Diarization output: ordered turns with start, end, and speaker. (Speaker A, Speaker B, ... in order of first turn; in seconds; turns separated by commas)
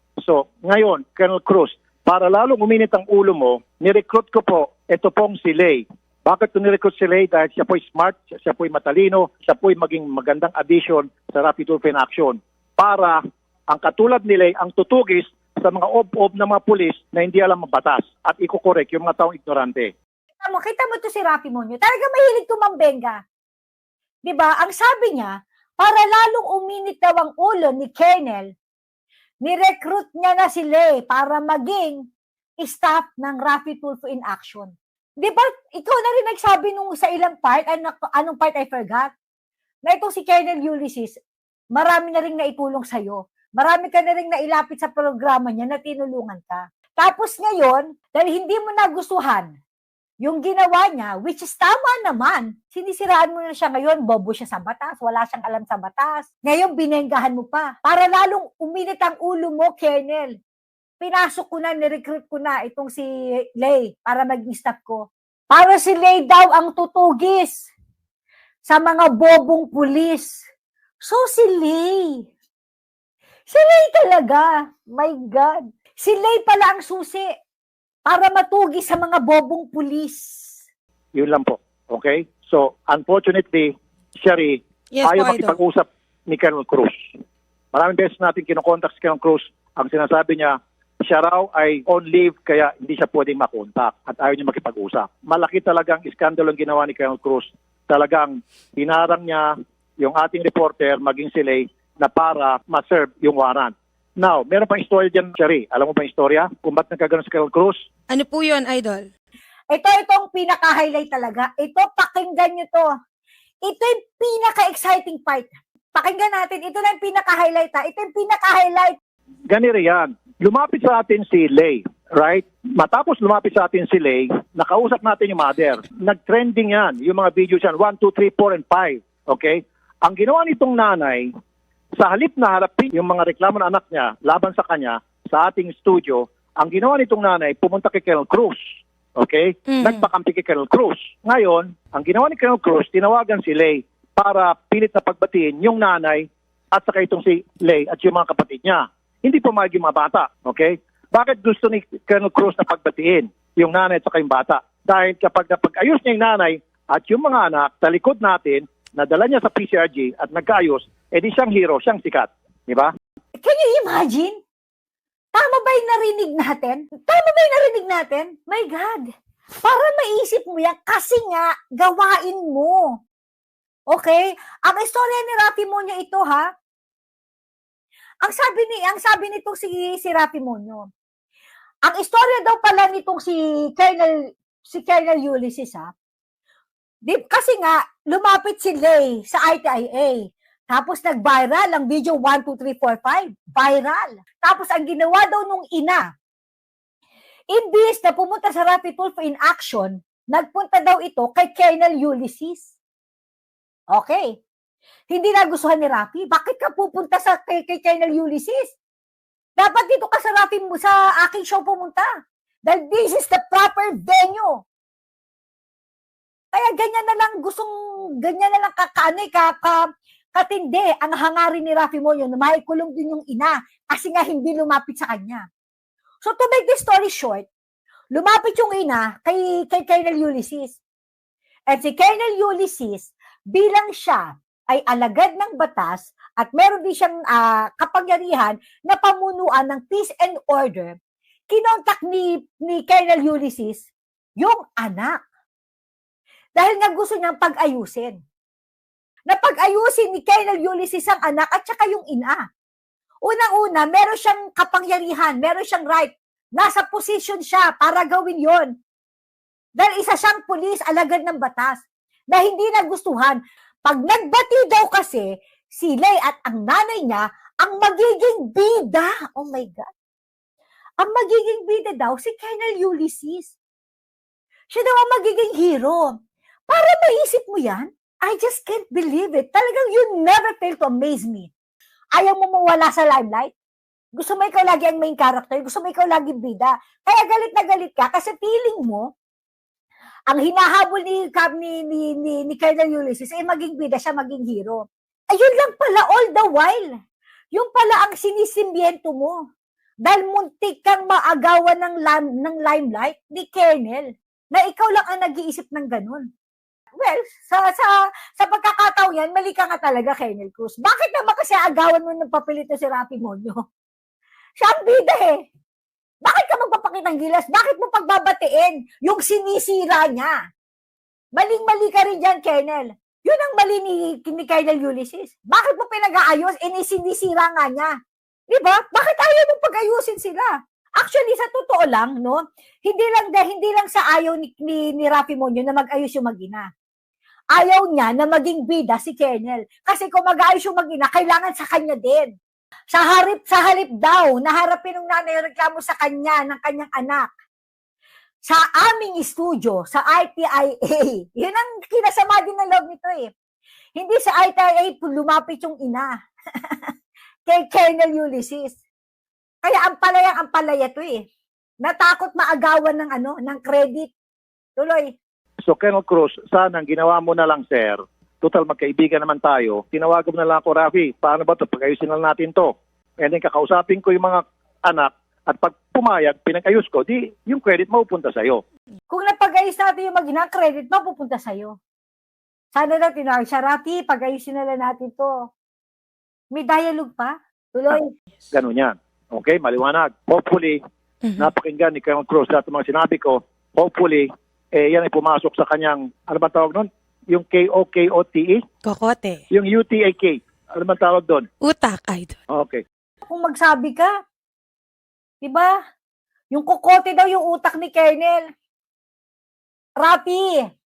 Speaker A: 0.2-19.9, Speaker B: 20.4-23.2, Speaker B: 24.2-28.5, Speaker B: 29.4-32.0, Speaker B: 32.6-39.1, Speaker B: 39.9-41.1, Speaker B: 41.7-49.5, Speaker B: 50.2-60.4, Speaker B: 61.0-67.7, Speaker B: 68.7-70.4, Speaker B: 71.0-72.3, Speaker B: 73.5-77.3, Speaker B: 78.0-80.6, Speaker A: 81.2-87.1, Speaker C: 84.9-85.6, Speaker A: 87.7-107.8, Speaker C: 108.1-109.1, Speaker B: 109.7-112.9, Speaker B: 113.7-119.0, Speaker A: 119.5-131.3, Speaker A: 132.0-138.6, Speaker A: 139.2-162.9, Speaker C: 139.7-140.1, Speaker B: 163.4-164.4, Speaker B: 165.3-169.1, Speaker B: 169.6-173.0, Speaker B: 173.9-176.5, Speaker B: 178.2-180.9, Speaker B: 181.8-185.9, Speaker B: 187.1-196.0, Speaker B: 197.5-202.8, Speaker B: 203.9-204.4, Speaker B: 205.1-208.8, Speaker B: 209.6-212.1, Speaker B: 212.7-214.6, Speaker B: 216.5-219.8, Speaker B: 220.3-225.4, Speaker B: 226.2-227.5, Speaker B: 228.1-230.8, Speaker B: 231.7-241.0, Speaker B: 241.5-243.9, Speaker B: 244.4-245.2, Speaker B: 246.6-248.2, Speaker B: 249.3-252.4, Speaker B: 253.2-258.7, Speaker B: 259.8-269.9, Speaker B: 271.0-273.5, Speaker B: 274.7-276.1, Speaker B: 276.7-281.5, Speaker B: 282.1-283.5, Speaker B: 284.1-289.1, Speaker B: 290.3-296.9, Speaker B: 297.5-299.4, Speaker B: 300.1-306.2, Speaker B: 307.0-313.6, Speaker B: 314.6-315.4, Speaker B: 316.2-320.3, Speaker B: 321.3-327.9, Speaker B: 328.5-336.7, Speaker B: 337.5-342.3, Speaker B: 342.9-347.3, Speaker B: 348.4-353.3, Speaker B: 353.9-356.1, Speaker B: 357.4-358.8, Speaker B: 359.6-361.2, Speaker B: 361.8-364.1, Speaker B: 364.8-365.1, Speaker A: 365.6-378.6, Speaker B: 379.1-381.8, Speaker B: 382.7-385.5, Speaker B: 386.5-388.1, Speaker A: 388.5-390.8, Speaker C: 391.2-391.5, Speaker A: 391.4-398.6, Speaker C: 398.8-399.4, Speaker A: 399.5-401.5, Speaker C: 401.6-402.4, Speaker A: 402.5-402.8, Speaker B: 403.2-404.1, Speaker B: 405.4-405.7, Speaker B: 406.5-408.4, Speaker B: 410.0-410.6